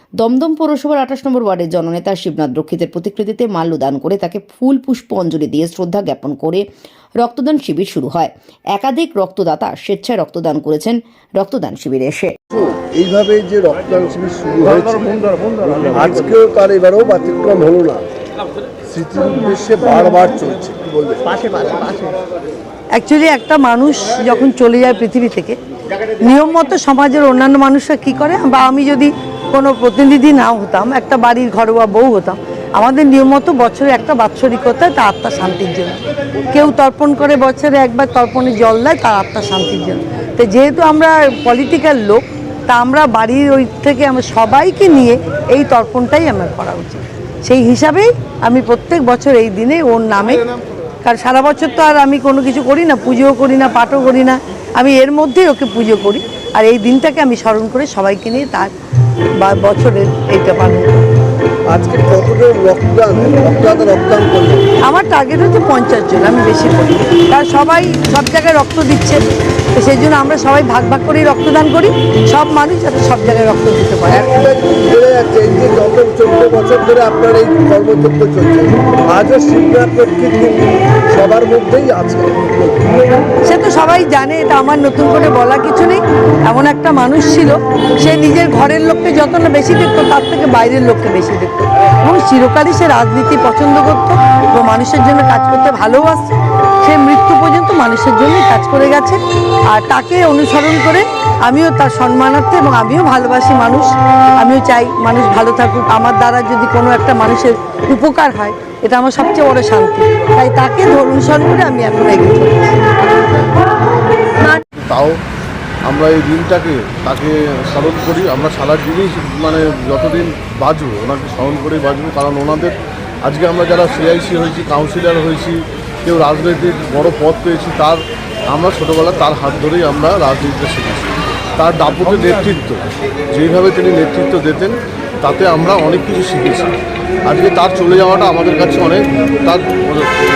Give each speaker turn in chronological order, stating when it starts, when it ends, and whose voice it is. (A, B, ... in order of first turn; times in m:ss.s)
0:00.2-0:06.6 A
0:07.2-0:12.4 A
0:12.5-0:15.2 B
0:15.7-0:18.0 B
0:18.8-0:21.9 B
0:22.9-0:25.6 C
0:26.2-0:50.4 C
0:51.0-0:58.7 C
0:59.4-1:01.0 C
1:01.7-1:04.7 B
1:04.8-1:09.2 C
1:09.7-1:14.3 C
1:14.1-1:23.2 B
1:23.4-1:39.2 C
1:39.7-1:52.9 C
1:54.4-1:55.2 D
1:55.9-2:20.1 D